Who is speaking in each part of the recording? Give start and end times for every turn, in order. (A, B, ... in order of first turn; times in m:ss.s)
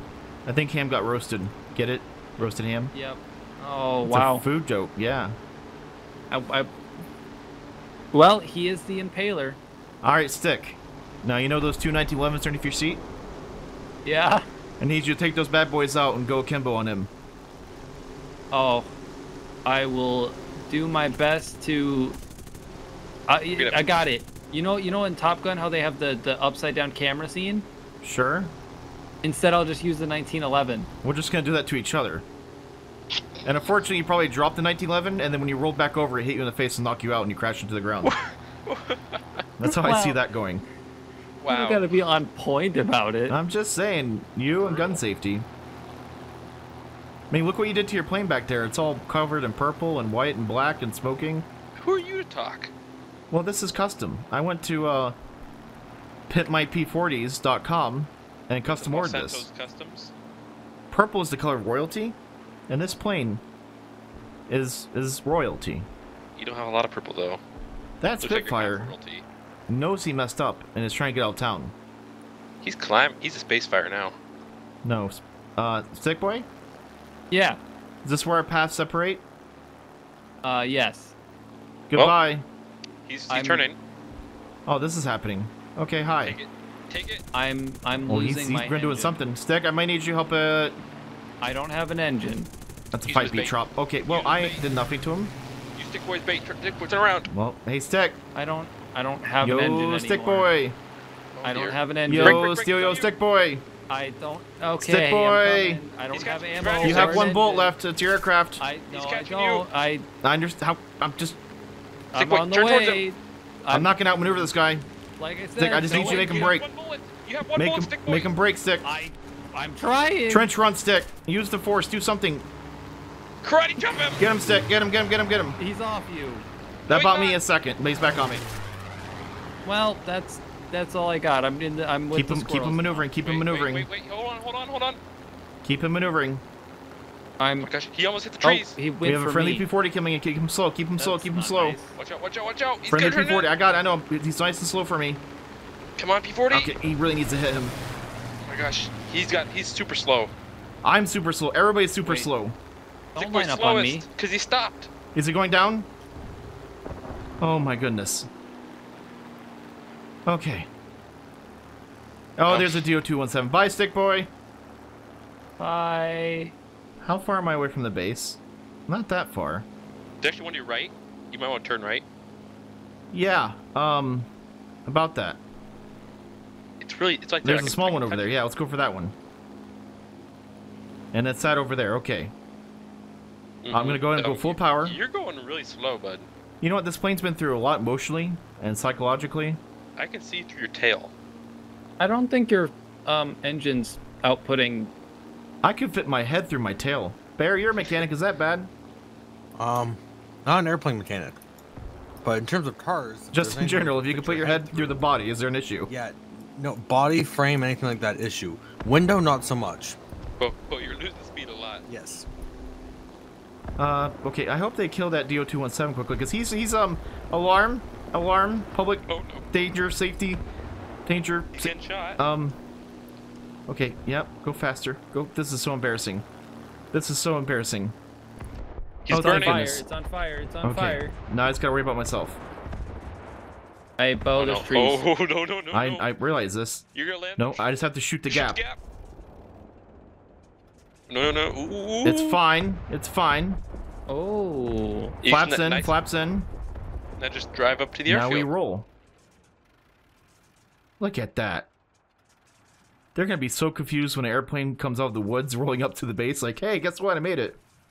0:00.5-0:02.9 A
0:02.9-0:04.5 B
0:04.0-0:05.4 A
0:06.3-0:06.7 B
0:08.1-0:09.6 B
0:10.0-0:13.0 A
0:14.0-0:14.4 B
0:14.8-0:17.1 A
0:18.5-0:19.0 B
0:19.6-0:22.2 B
0:23.3-0:27.7 B
0:23.6-0:24.0 C
0:28.0-0:28.5 A
0:29.2-0:30.9 B
0:31.0-0:32.2 A
0:33.4-0:38.2 A
0:38.0-0:39.4 C
0:39.6-0:40.6 A
0:39.6-0:40.2 B
0:41.4-0:41.9 C
0:41.5-0:43.4 B
0:43.3-0:45.5 A
0:44.6-0:45.0 C
0:47.3-0:51.5 A
0:51.8-0:52.7 C
0:53.3-0:55.2 A
0:56.3-0:59.5 A
0:58.6-1:00.1 C
1:00.9-1:02.2 A
1:02.7-1:03.4 A
1:04.5-1:05.9 A
1:06.4-1:07.4 C
1:08.0-1:08.9 A
1:08.2-1:09.2 C
1:09.7-1:11.7 A
1:12.6-1:14.2 C
1:14.8-1:16.5 A
1:17.3-1:17.6 B
1:18.0-1:19.2 A
1:20.4-1:21.2 B
1:21.9-1:22.4 A
1:23.1-1:23.8 C
1:23.3-1:23.7 B
1:24.7-1:26.4 A
1:26.1-1:27.2 C
1:27.3-1:29.2 B
1:28.1-1:30.8 A
1:31.4-1:32.5 B
1:32.9-1:35.3 A
1:33.1-1:34.6 C
1:35.8-1:37.3 C
1:37.3-1:38.2 A
1:38.4-1:40.6 B
1:39.4-1:40.8 A
1:41.4-1:43.1 C
1:41.4-1:42.5 B
1:42.0-1:43.7 A
1:43.9-1:47.8 B
1:44.8-1:45.8 A
1:46.1-1:47.3 C
1:46.8-1:48.6 A
1:48.6-1:50.1 B
1:48.9-1:49.6 C
1:50.2-1:51.4 A
1:52.1-1:53.9 B
1:52.1-1:53.0 C
1:53.7-1:54.8 A
1:55.2-1:56.3 B
1:55.6-1:56.6 A
1:55.8-1:58.3 C
1:57.6-1:59.0 A
1:58.8-2:00.5 B
2:00.3-2:02.4 A
2:03.4-2:04.2 C
2:04.1-2:05.6 A
2:05.6-2:06.5 B
2:06.9-2:08.4 A
2:06.9-2:07.4 C
2:09.6-2:13.2 B
2:12.1-2:13.9 A
2:13.2-2:15.0 C
2:15.6-2:16.4 A
2:17.4-2:17.7 B
2:17.6-2:18.8 C
2:18.4-2:19.7 B
2:19.0-2:21.8 A
2:21.0-2:21.9 B
2:22.0-2:23.5 C
2:22.9-2:25.2 A
2:26.0-2:26.7 C
2:26.5-2:27.8 A
2:28.5-2:30.3 C
2:30.8-2:32.6 A
2:32.0-2:32.3 B
2:33.2-2:34.1 B
2:33.2-2:34.9 C
2:35.1-2:35.9 A
2:37.4-2:38.3 A
2:40.3-2:40.7 A
2:42.4-2:44.3 A
2:42.5-2:42.9 C
2:45.6-2:46.5 B
2:47.0-2:49.7 A
2:50.2-2:52.0 C
2:53.1-2:54.3 A
2:54.9-2:55.4 A
2:56.8-2:58.3 C
2:57.4-2:59.2 A
3:01.1-3:02.3 A
3:03.6-3:06.3 C
3:03.7-3:05.0 A
3:06.6-3:09.6 A
3:10.0-3:11.1 C
3:12.0-3:14.9 B
3:15.6-3:18.7 A
3:19.6-3:21.4 D
3:22.2-3:25.0 D
3:23.3-3:25.9 A
3:25.9-3:30.0 D
3:30.4-3:31.8 C
3:31.9-3:32.3 D
3:33.8-3:40.4 A
3:39.1-3:39.5 C
3:41.1-3:42.6 A
3:41.5-3:42.2 C
3:43.7-3:46.3 A
3:46.9-3:48.0 A
3:49.0-3:49.7 C
3:49.1-3:51.2 B
3:49.1-3:49.9 A
3:50.6-3:52.4 A
3:54.0-3:55.0 B
3:54.4-3:56.1 C
3:55.7-3:56.8 A
3:56.9-3:57.8 C
3:57.4-3:58.6 A
3:58.3-3:58.8 C
4:01.1-4:02.4 C
4:02.0-4:03.6 A
4:04.1-4:05.2 B
4:05.2-4:06.0 C
4:05.2-4:06.5 A
4:07.2-4:08.5 C
4:08.1-4:08.9 A
4:11.0-4:11.7 A
4:13.2-4:17.6 A